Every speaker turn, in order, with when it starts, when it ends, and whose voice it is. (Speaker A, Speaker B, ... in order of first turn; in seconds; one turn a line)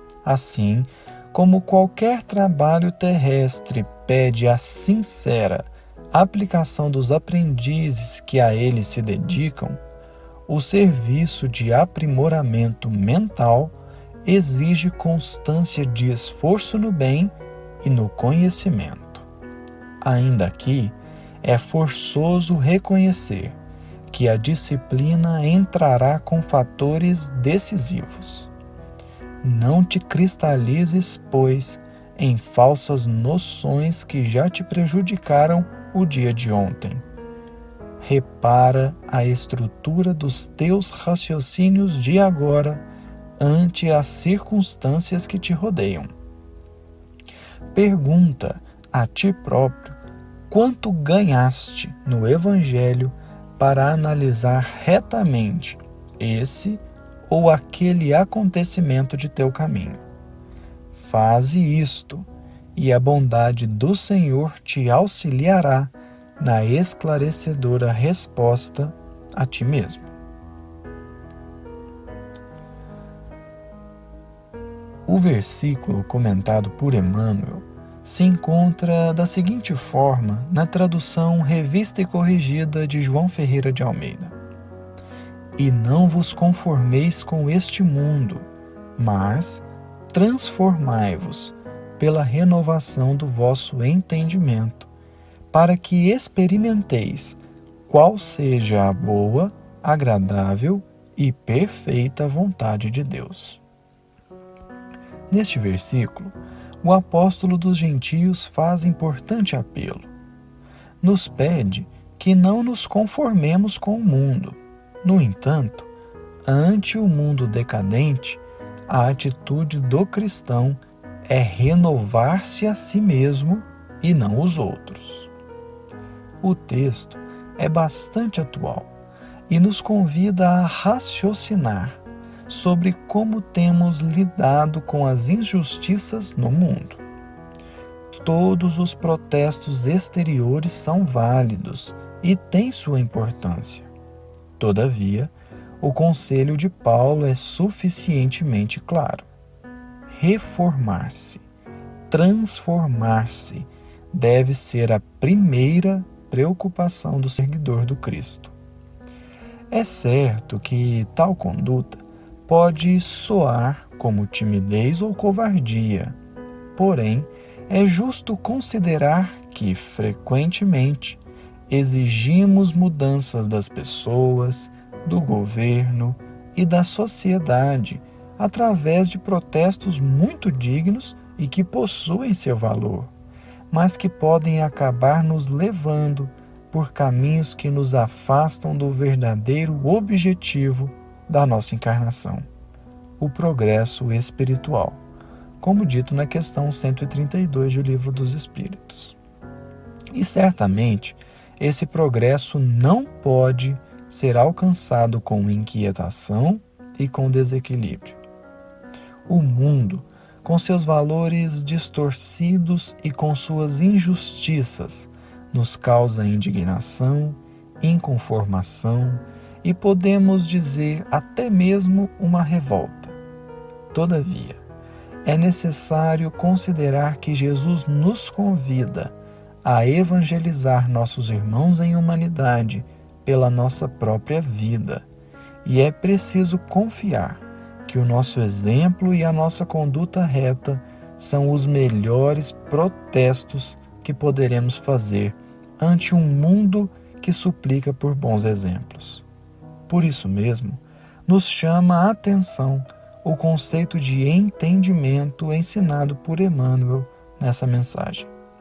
Speaker A: 0.2-9.8
Speaker A: 10.5-19.3
Speaker A: 20.0-23.6
Speaker A: 24.1-28.5
Speaker A: 29.4-37.0
Speaker A: 38.0-42.8
Speaker A: 43.4-46.1
Speaker A: 47.7-50.0
Speaker A: 50.5-60.0
Speaker A: 60.9-70.1
Speaker A: 75.0-84.3
Speaker A: 85.6-94.9
Speaker A: 95.5-103.6
Speaker A: 105.3-110.1
Speaker A: 111.0-115.9
Speaker A: 116.4-125.3
Speaker A: 126.4-128.9
Speaker A: 129.5-137.0
Speaker A: 138.2-143.9
Speaker A: 144.6-149.3
Speaker A: 150.1-151.4
Speaker A: 152.1-158.5
Speaker A: 159.7-166.2
Speaker A: 166.7-183.1
Speaker A: 183.7-192.5
Speaker A: 193.2-195.0
Speaker A: 195.6-199.2
Speaker A: 200.1-208.2
Speaker A: 209.3-223.2
Speaker A: 223.9-224.6
Speaker A: 225.2-235.1
Speaker A: 235.6-249.2
Speaker A: 249.9-258.3